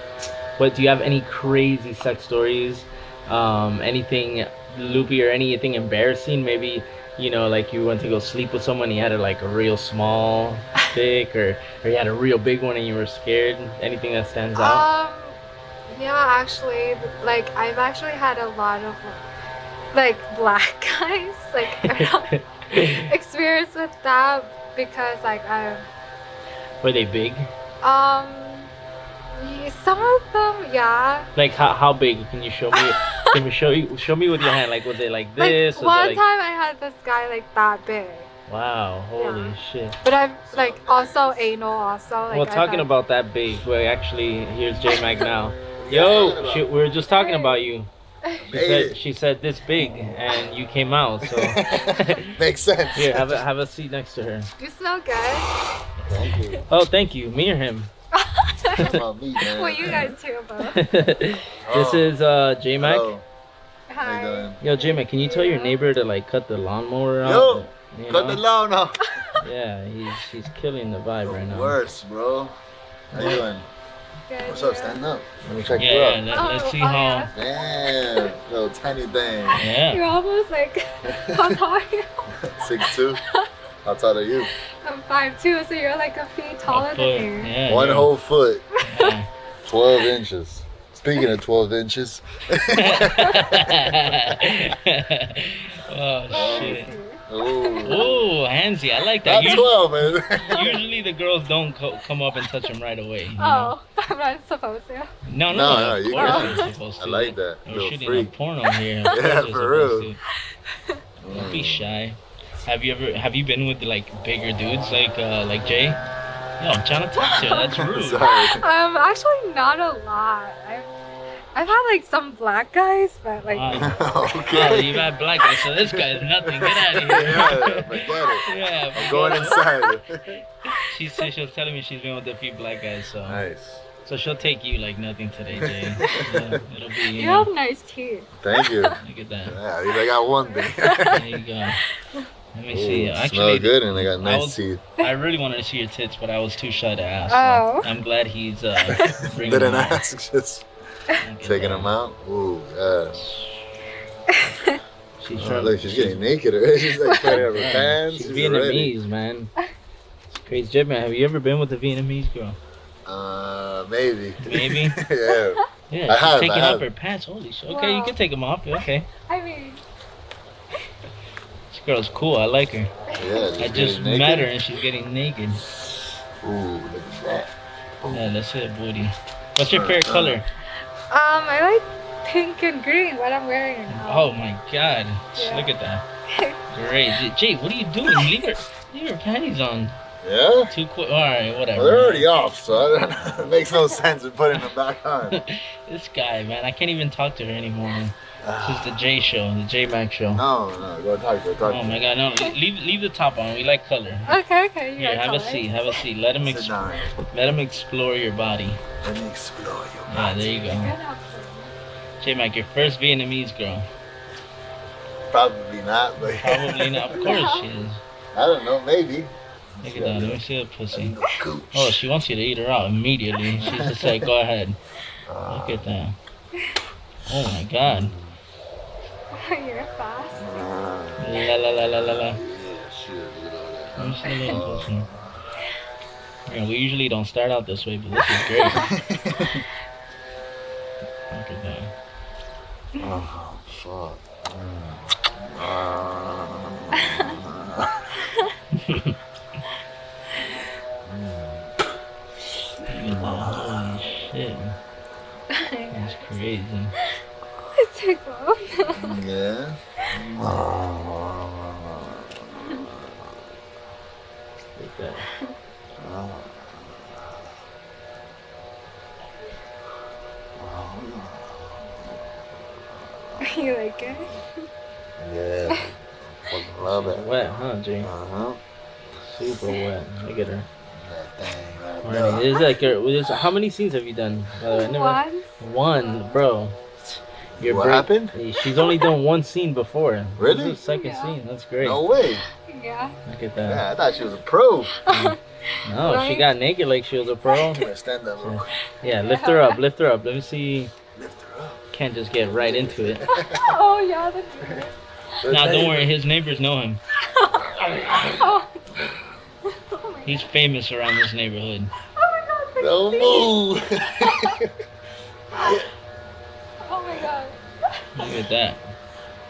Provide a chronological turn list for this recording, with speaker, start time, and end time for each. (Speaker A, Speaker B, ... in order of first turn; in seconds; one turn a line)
Speaker A: 0.6-14.8
Speaker B: 14.6-15.4
Speaker B: 15.9-19.2
Speaker B: 19.9-25.9
Speaker A: 21.8-23.1
Speaker A: 26.8-27.5
Speaker B: 27.8-28.7
Speaker B: 29.4-31.3
Speaker A: 31.4-36.2
Speaker B: 32.7-33.4
Speaker B: 35.4-38.3
Speaker A: 38.5-40.0
Speaker B: 39.2-42.9
Speaker C: 40.5-41.4
Speaker A: 42.3-47.9
Speaker B: 44.9-45.2
Speaker C: 45.8-46.7
Speaker B: 47.1-47.7
Speaker C: 48.4-49.0
Speaker A: 48.5-52.4
Speaker C: 51.2-53.4
Speaker A: 53.0-54.5
Speaker B: 54.6-55.5
Speaker C: 56.0-56.6
Speaker A: 56.7-57.9
Speaker B: 58.1-60.8
Speaker C: 58.8-60.2
Speaker A: 60.7-63.1
Speaker C: 61.6-62.2
Speaker C: 62.8-63.2
Speaker B: 63.9-65.8
Speaker C: 64.0-64.6
Speaker A: 64.6-68.4
Speaker C: 67.2-69.2
Speaker A: 69.4-71.8
Speaker C: 71.2-72.6
Speaker C: 73.1-73.7
Speaker A: 73.1-73.4
Speaker B: 74.3-75.0
Speaker C: 74.4-76.3
Speaker A: 75.5-77.3
Speaker B: 76.3-77.3
Speaker C: 77.3-79.7
Speaker A: 79.5-80.1
Speaker B: 79.9-83.5
Speaker C: 81.1-81.6
Speaker C: 82.3-83.2
Speaker C: 83.8-84.5
Speaker B: 84.8-87.5
Speaker A: 86.7-88.1
Speaker C: 87.7-88.7
Speaker B: 88.8-89.1
Speaker A: 88.8-89.3
Speaker C: 89.7-94.4
Speaker A: 92.6-96.9
Speaker B: 96.3-98.1
Speaker C: 96.3-98.3
Speaker A: 97.8-103.8
Speaker C: 99.2-100.8
Speaker B: 103.4-105.1
Speaker A: 105.2-110.2
Speaker C: 105.5-108.3
Speaker B: 106.2-106.5
Speaker C: 109.1-110.1
Speaker B: 110.7-111.0
Speaker C: 111.2-111.9
Speaker A: 111.3-116.0
Speaker A: 116.6-118.3
Speaker B: 117.3-117.7
Speaker C: 117.3-118.7
Speaker B: 118.3-120.9
Speaker B: 121.5-123.9
Speaker A: 123.4-129.6
Speaker C: 123.7-130.4
Speaker B: 129.1-129.7
Speaker A: 130.9-133.4
Speaker C: 133.2-133.9
Speaker A: 134.1-137.5
Speaker C: 135.6-136.6
Speaker B: 137.2-139.0
Speaker C: 138.4-141.2
Speaker A: 139.0-139.6
Speaker B: 140.5-141.2
Speaker A: 141.1-141.8
Speaker B: 141.9-142.3
Speaker A: 142.5-150.0
Speaker C: 142.7-144.8
Speaker B: 147.3-147.9
Speaker C: 148.8-150.7
Speaker A: 151.2-152.0
Speaker C: 151.4-153.3
Speaker A: 153.2-153.7
Speaker B: 154.3-154.8
Speaker A: 155.2-156.2
Speaker C: 155.3-158.9
Speaker B: 157.1-157.4
Speaker A: 157.3-159.5
Speaker A: 160.3-162.6
Speaker C: 163.1-166.9
Speaker A: 164.4-165.0
Speaker A: 165.9-169.1
Speaker B: 167.7-168.2
Speaker B: 169.2-169.8
Speaker A: 171.7-172.9
Speaker B: 173.1-173.5
Speaker C: 173.1-174.5
Speaker A: 173.6-175.6
Speaker C: 176.4-178.3
Speaker A: 178.1-180.4
Speaker C: 179.7-180.4
Speaker B: 181.1-184.3
Speaker A: 183.9-186.0
Speaker B: 185.4-185.7
Speaker B: 186.3-186.6
Speaker A: 186.7-190.0
Speaker C: 190.2-190.7
Speaker A: 190.7-192.3
Speaker C: 191.7-195.4
Speaker A: 195.3-200.4
Speaker C: 198.4-199.0
Speaker C: 200.3-202.1
Speaker A: 201.7-204.4
Speaker B: 204.3-206.0
Speaker A: 205.0-208.8
Speaker C: 206.4-207.2
Speaker C: 209.0-210.5
Speaker A: 210.1-210.9
Speaker B: 210.7-211.7
Speaker A: 212.2-213.9
Speaker C: 215.3-217.3
Speaker A: 216.3-218.0
Speaker B: 217.2-217.7
Speaker C: 218.3-220.4
Speaker A: 219.8-221.2
Speaker C: 220.9-222.0
Speaker A: 221.7-224.8
Speaker C: 223.5-224.3
Speaker C: 225.2-225.9
Speaker A: 225.5-226.2
Speaker A: 227.3-228.1
Speaker C: 227.8-228.4
Speaker B: 229.3-230.5
Speaker C: 230.3-235.4
Speaker A: 231.2-232.4
Speaker A: 234.0-235.1
Speaker A: 236.5-238.9
Speaker C: 238.3-239.6
Speaker A: 241.3-241.9
Speaker C: 243.0-248.2
Speaker A: 248.7-249.2
Speaker C: 251.0-251.8
Speaker A: 252.9-254.8
Speaker C: 252.9-254.3
Speaker B: 255.5-256.3
Speaker A: 255.9-256.9
Speaker B: 257.7-259.2
Speaker C: 258.9-263.6
Speaker A: 264.8-265.3
Speaker C: 266.0-267.5
Speaker C: 270.6-274.4
Speaker B: 273.4-274.4
Speaker C: 275.2-277.4
Speaker A: 276.8-278.1
Speaker C: 278.0-278.6
Speaker A: 279.2-280.7
Speaker C: 280.9-282.8
Speaker A: 282.0-287.0
Speaker B: 284.7-285.5
Speaker C: 287.6-288.4
Speaker A: 287.6-292.0
Speaker B: 288.7-289.1
Speaker C: 290.4-290.8
Speaker B: 290.8-291.4
Speaker C: 291.8-292.5
Speaker B: 292.6-293.2
Speaker A: 293.3-293.9
Speaker C: 293.6-295.1
Speaker B: 294.9-296.4
Speaker A: 295.1-297.9
Speaker C: 297.6-298.7
Speaker A: 298.4-300.9
Speaker B: 299.0-299.8
Speaker C: 301.1-301.8
Speaker A: 301.9-303.2
Speaker C: 302.4-303.8
Speaker B: 303.3-304.9
Speaker C: 304.6-304.9
Speaker C: 305.4-306.1
Speaker A: 305.5-307.0
Speaker B: 307.2-307.8
Speaker C: 307.6-309.3
Speaker B: 308.3-308.9
Speaker B: 309.7-310.5
Speaker A: 310.2-311.9
Speaker B: 312.1-314.6
Speaker C: 312.8-314.8
Speaker C: 315.5-315.9
Speaker B: 315.6-315.9
Speaker B: 316.8-318.3
Speaker A: 318.1-318.9